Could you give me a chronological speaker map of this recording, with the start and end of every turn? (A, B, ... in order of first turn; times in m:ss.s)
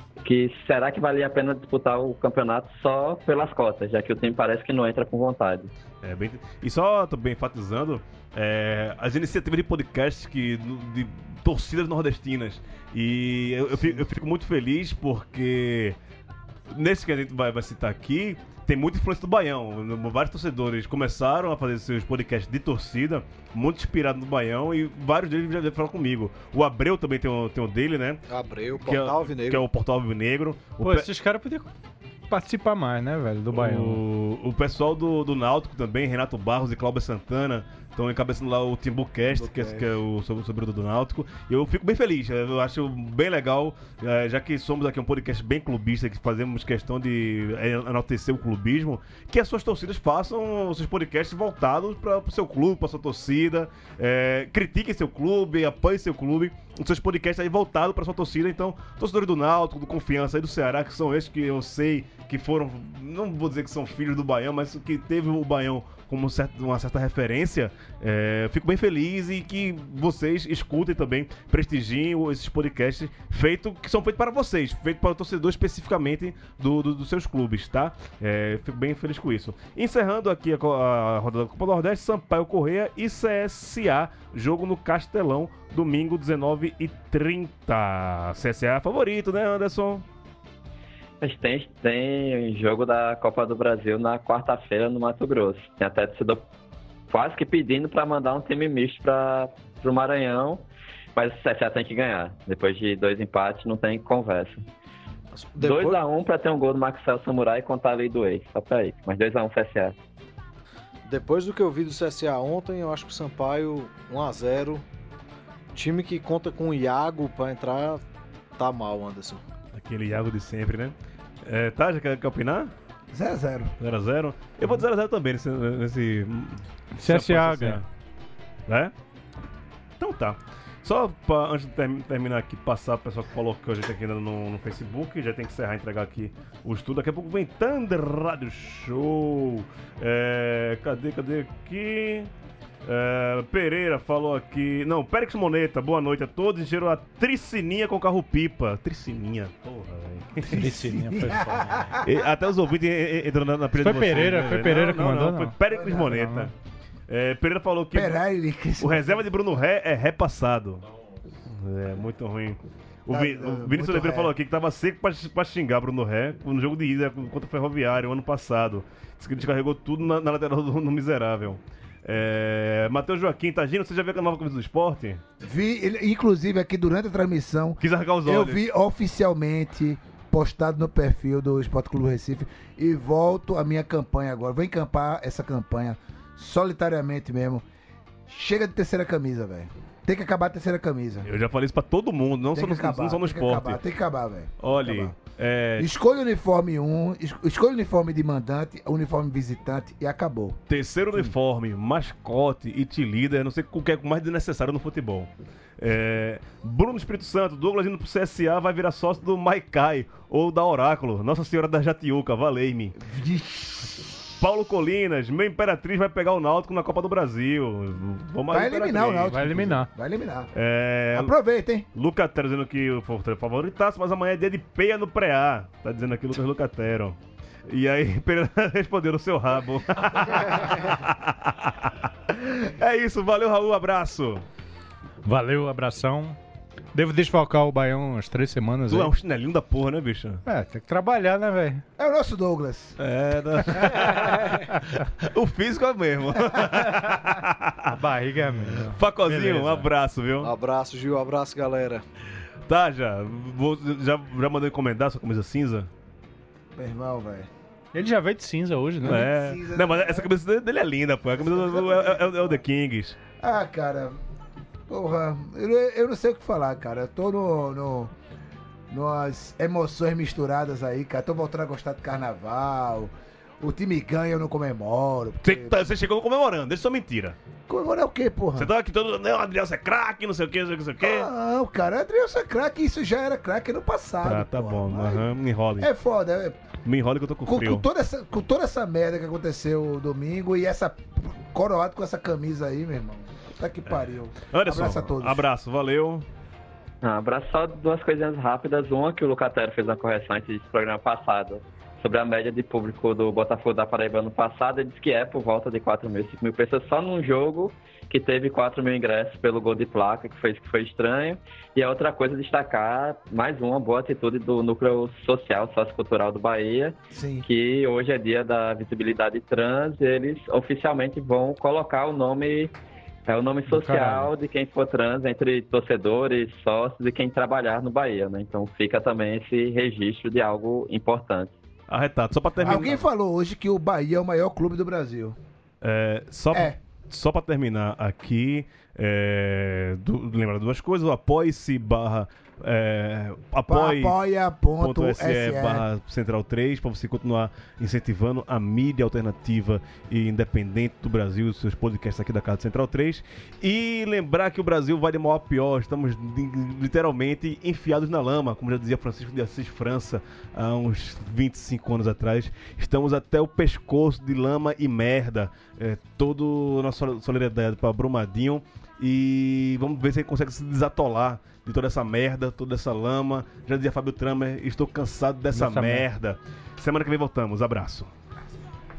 0:00.2-0:05.7 A
0:06.0-0:16.0 B
0:16.7-0:28.2 B
0:28.3-0:29.6 C
0:28.8-0:31.1 B
0:30.8-0:31.7 D
0:32.3-0:34.0 D
0:33.5-1:30.0 B
1:31.2-1:36.4 A
1:37.1-1:40.6 A
1:41.2-1:44.6 A
1:45.3-1:46.0 C
1:45.6-1:50.0 A
1:51.0-1:54.8 C
1:55.7-1:58.0 C
1:58.5-1:59.4 C
1:59.7-2:02.7 B
2:03.1-2:03.7 E
2:03.8-2:07.9 B
2:07.0-2:07.8 D
2:08.7-2:08.9 B
2:10.0-2:22.3 B
2:22.8-2:31.0 B
2:30.4-2:31.8 D
2:30.7-2:32.1 E
2:32.0-2:36.5 B
2:33.7-2:36.5 D
2:35.7-2:36.3 E
2:37.1-2:38.2 B
2:37.9-2:39.2 E
2:38.8-2:40.8 B
2:41.5-2:55.2 B
2:43.1-2:44.3 E
2:55.4-3:07.6 E
2:57.8-2:58.6 B
3:08.3-3:11.3 E
3:11.2-3:13.8 B
3:12.5-3:15.2 E
3:14.6-3:15.9 B
3:15.8-3:20.6 E
3:20.7-3:33.0 B
3:33.0-3:34.2 E
3:34.4-3:39.7 B
3:38.5-3:40.5 E
3:39.3-3:39.9 D
3:40.5-3:41.3 B
3:41.1-3:41.8 E
3:41.9-3:54.4 B
3:55.2-3:56.4 D
3:56.9-3:59.1 D
3:58.9-4:00.4 B
4:00.4-4:01.8 D
4:02.0-4:03.0 E
4:03.0-4:08.0 B
4:03.6-4:04.0 E
4:06.7-4:07.2 D
4:07.9-4:09.9 D
4:08.8-4:10.5 B
4:10.4-4:12.0 C
4:12.7-4:15.9 B
4:16.7-4:17.5 E
4:17.9-4:19.2 D
4:19.0-4:20.3 E
4:19.0-4:23.2 B
4:21.4-4:22.6 E
4:23.4-4:24.2 E
4:24.9-4:28.1 E
4:28.9-4:35.8 E
4:35.4-4:37.4 B
4:37.7-4:38.7 E
4:38.6-4:41.3 B
4:41.0-4:46.7 E
4:44.2-4:45.9 B
4:46.8-4:47.8 B
4:47.4-4:55.4 E
4:54.5-4:56.2 B
4:57.0-5:22.7 A
5:17.1-5:17.4 E
5:23.3-5:31.5 A
5:23.7-5:24.3 D
5:31.9-5:33.0 B
5:32.6-5:35.4 E
5:35.8-5:44.2 B
5:36.5-5:36.8 E
5:43.7-5:45.8 E
5:44.8-6:18.1 B
6:15.5-6:16.1 D